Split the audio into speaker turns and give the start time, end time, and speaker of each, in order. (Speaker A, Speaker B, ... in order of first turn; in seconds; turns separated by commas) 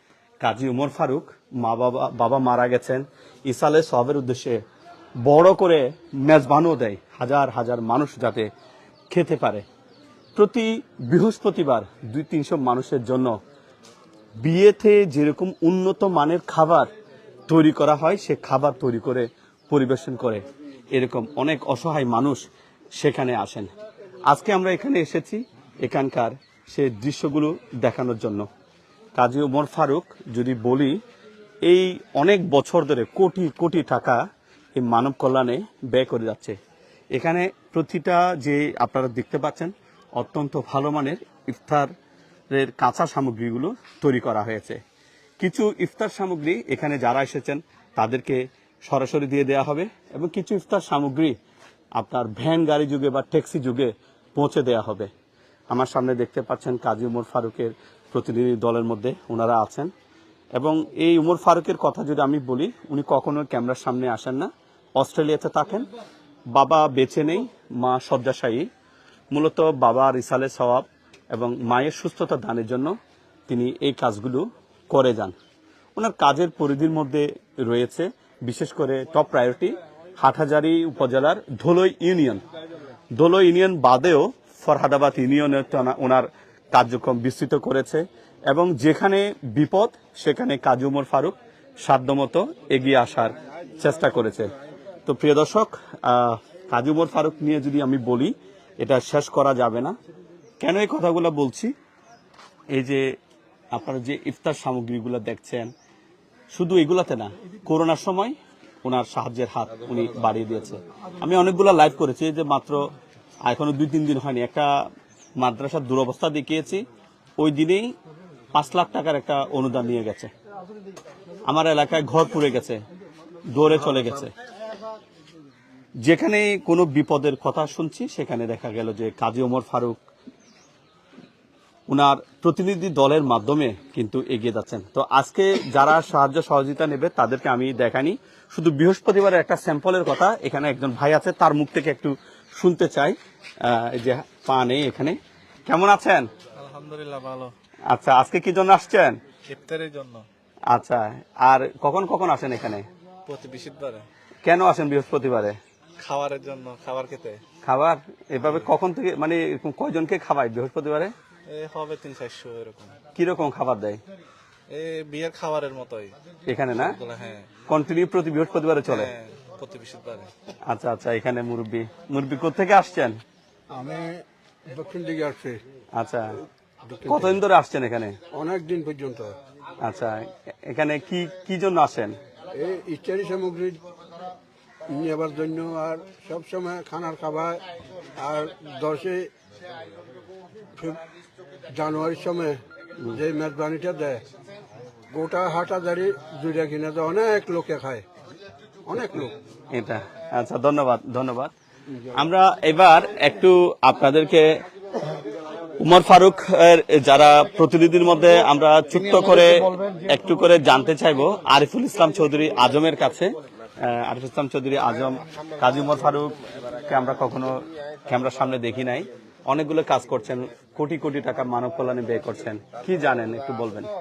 Speaker A: 0.4-4.6, Speaker A: 5.2-8.5, Speaker A: 9.1-9.6, Speaker A: 10.3-13.4, Speaker A: 14.4-16.9, Speaker A: 17.5-22.4, Speaker A: 23.0-23.7, Speaker A: 24.3-28.5, Speaker A: 29.1-31.0, Speaker A: 31.6-34.2, Speaker A: 34.8-36.6, Speaker A: 37.1-41.9, Speaker A: 42.5-44.8, Speaker A: 45.4-51.4, Speaker A: 52.0-55.1, Speaker A: 55.7-59.9, Speaker A: 60.5-65.8, Speaker A: 66.5-68.7, Speaker A: 69.3-72.9, Speaker A: 73.5-75.3, Speaker A: 76.0-82.4, Speaker A: 83.1-94.5, Speaker A: 95.0-100.0, Speaker A: 100.6-101.7, Speaker A: 102.7-103.2, Speaker A: 103.7-105.7, Speaker A: 106.5-112.9, Speaker A: 113.4-114.8, Speaker A: 115.4-116.8, Speaker A: 117.4-117.9, Speaker A: 118.5-120.3, Speaker A: 121.5-122.8, Speaker A: 123.5-124.3, Speaker A: 126.0-130.0, Speaker A: 131.9-146.3, Speaker B: 146.6-147.5, Speaker A: 147.9-149.2, Speaker B: 149.5-150.2, Speaker A: 150.7-152.8, Speaker B: 153.3-154.1, Speaker A: 154.4-155.6, Speaker B: 156.0-157.4, Speaker A: 157.6-161.1, Speaker B: 161.5-162.9, Speaker A: 163.2-164.0, Speaker B: 164.7-166.1, Speaker A: 166.5-166.9, Speaker B: 166.8-167.5, Speaker A: 167.7-169.1, Speaker B: 168.8-170.3, Speaker A: 170.7-173.2, Speaker C: 173.7-175.6, Speaker A: 175.9-176.3, Speaker C: 176.8-177.4, Speaker A: 177.0-178.2, Speaker C: 178.3-179.3, Speaker A: 179.8-182.2, Speaker C: 182.5-183.8, Speaker C: 184.9-187.6, Speaker C: 188.2-189.3, Speaker C: 191.7-192.6, Speaker C: 193.1-194.2, Speaker C: 195.1-198.0, Speaker C: 198.9-199.3, Speaker A: 199.7-201.5, Speaker A: 202.1-204.6, Speaker A: 205.8-216.3, Speaker A: 216.9-223.9